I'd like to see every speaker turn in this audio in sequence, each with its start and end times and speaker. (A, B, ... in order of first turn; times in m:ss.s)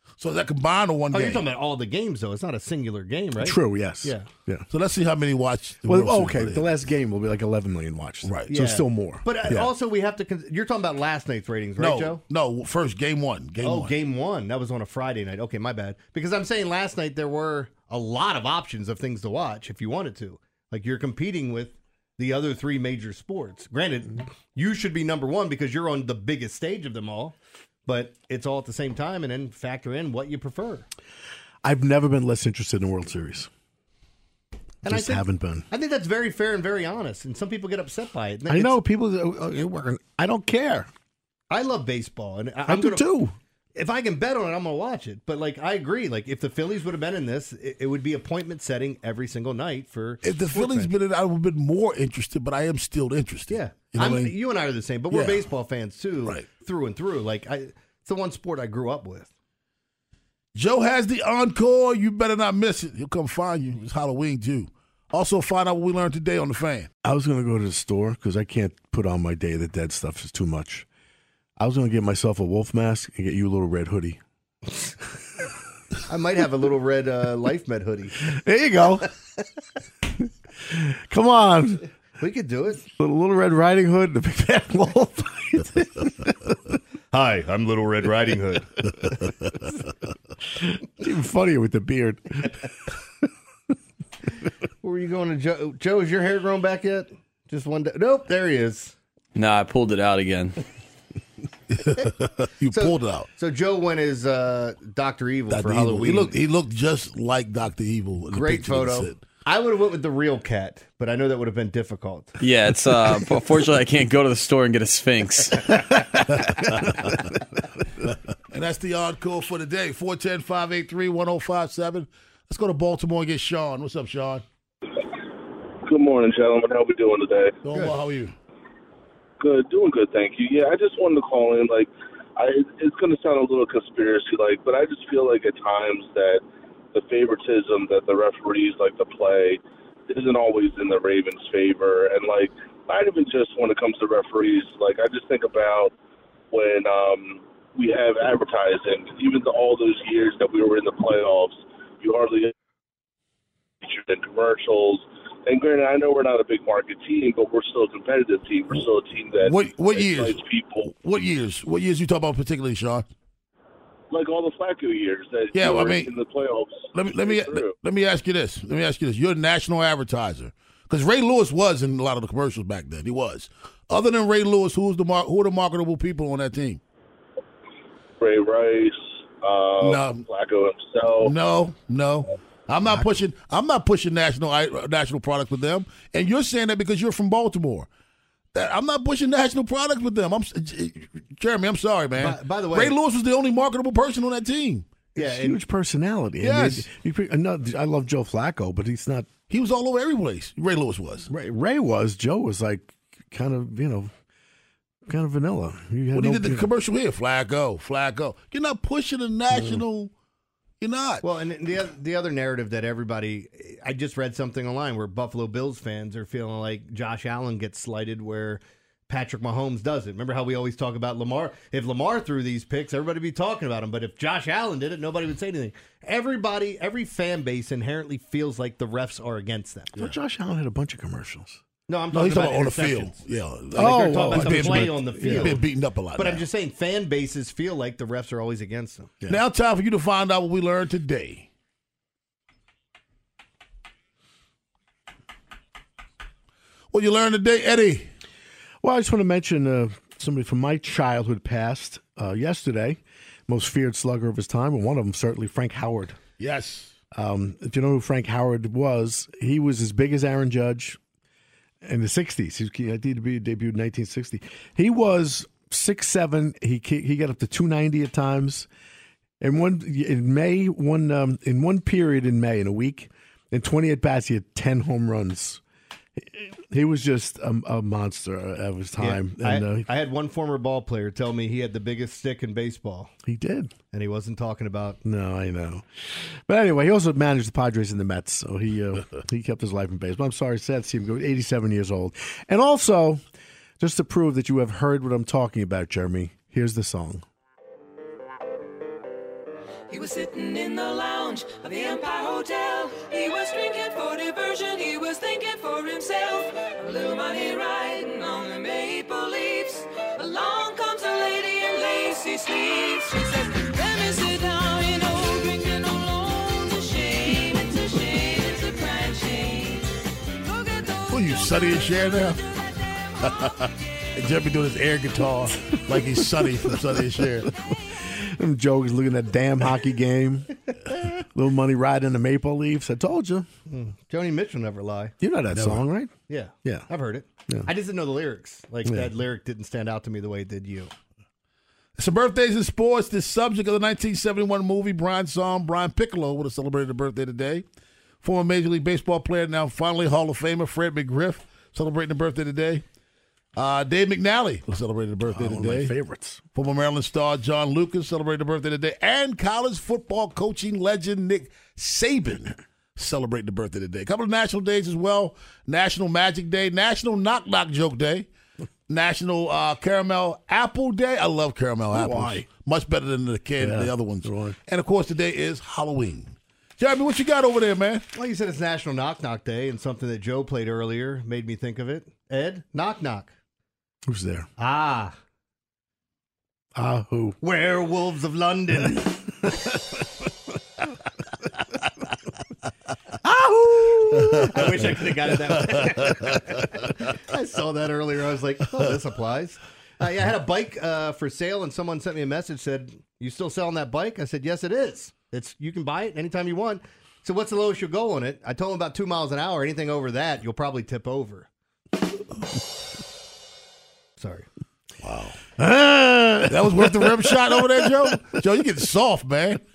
0:00.2-0:01.5 A
0:01.1-0:04.3 B
0:03.4-0:04.6 C
0:04.7-0:06.7 A
0:05.8-0:09.2 C
0:08.2-0:08.6 A
0:08.5-0:12.2 B
0:09.4-0:09.7 A
0:11.8-0:13.9 A
0:13.6-0:30.9 B
0:31.6-0:33.5 C
0:34.8-0:35.6 C
0:34.8-0:38.8 B
0:38.5-0:40.9 C
0:41.5-0:43.1 B
0:42.6-0:43.3 C
0:43.7-0:50.9 B
0:50.2-0:54.3 A
0:53.5-0:59.3 B
0:55.1-0:55.5 A
1:00.5-1:06.9 A
1:07.0-1:10.8 C
1:11.6-1:14.2 C
1:16.1-1:18.3 B
1:18.3-1:19.1 C
1:20.7-1:21.9 C
1:22.2-1:22.9 B
1:23.0-1:26.3 C
1:27.1-1:28.7 B
1:30.6-1:32.6 C
1:34.8-1:38.9 B
1:39.3-1:40.6 D
1:41.7-1:43.3 A
1:42.7-1:46.3 B
1:45.5-1:49.2 A
1:48.3-1:52.4 B
1:52.4-1:55.7 D
1:56.4-1:56.9 A
1:58.5-2:04.4 A
2:05.8-2:07.6 E
2:07.6-2:08.3 A
2:09.4-2:16.4 E
2:16.9-2:25.9 E
2:26.5-2:32.5 E
2:33.8-2:40.9 E
2:39.4-2:43.1 A
2:44.1-2:47.8 E
2:45.5-2:46.2 A
2:46.9-2:56.8 A
2:58.2-3:01.3 E
2:59.8-3:00.2 A
3:01.2-3:07.9 A
3:08.5-3:14.8 A
3:12.1-3:13.0 B
3:15.1-3:15.6 B
3:15.2-3:19.3 C
3:16.4-3:16.9 A
3:19.5-3:21.3 A
3:21.3-3:24.1 C
3:25.1-3:26.7 C
3:26.1-3:30.1 A
3:29.5-3:29.8 C
3:30.8-3:31.2 A
3:31.2-3:50.0 B
3:50.0-3:51.6 C
3:51.9-3:59.1 B
3:52.1-3:56.4 A
3:53.7-3:55.6 C
3:59.3-4:01.5 A
4:06.9-4:08.1 A
4:08.8-4:16.2 C
4:16.4-4:16.9 A
4:17.1-4:21.0 C
4:21.8-4:28.7 C
4:29.4-4:35.6 C
4:36.2-4:39.9 C
4:39.0-4:43.1 B
4:43.2-4:43.7 C
4:43.9-4:45.0 B
4:45.0-4:53.2 C
4:53.8-4:57.2 C
4:59.9-5:23.6 F
5:21.1-5:22.4 A
5:23.2-5:27.5 A
5:25.9-5:27.1 C
5:27.9-5:30.5 C
5:31.3-5:33.5 C
5:33.7-5:35.2 B
5:35.2-5:36.1 C
5:35.5-5:35.8 A
5:36.3-5:40.9 B
5:38.8-5:39.1 C
5:42.0-5:47.6 A
5:48.2-5:52.8 A
5:53.5-5:55.9 A
5:55.2-5:56.4 C
5:56.5-6:08.3 A
6:08.9-6:18.0 A
6:11.9-6:12.5 C
6:13.6-6:14.6 C
6:18.1-6:23.3 B
6:24.1-6:24.5 C
6:24.6-6:25.1 B
6:26.7-6:27.4 C
6:27.4-6:29.7 B
6:33.2-6:34.7 C
6:34.5-6:51.5 B
6:54.2-6:54.5 B
6:55.0-6:55.4 A
6:55.6-6:57.2 C
6:56.5-6:59.6 A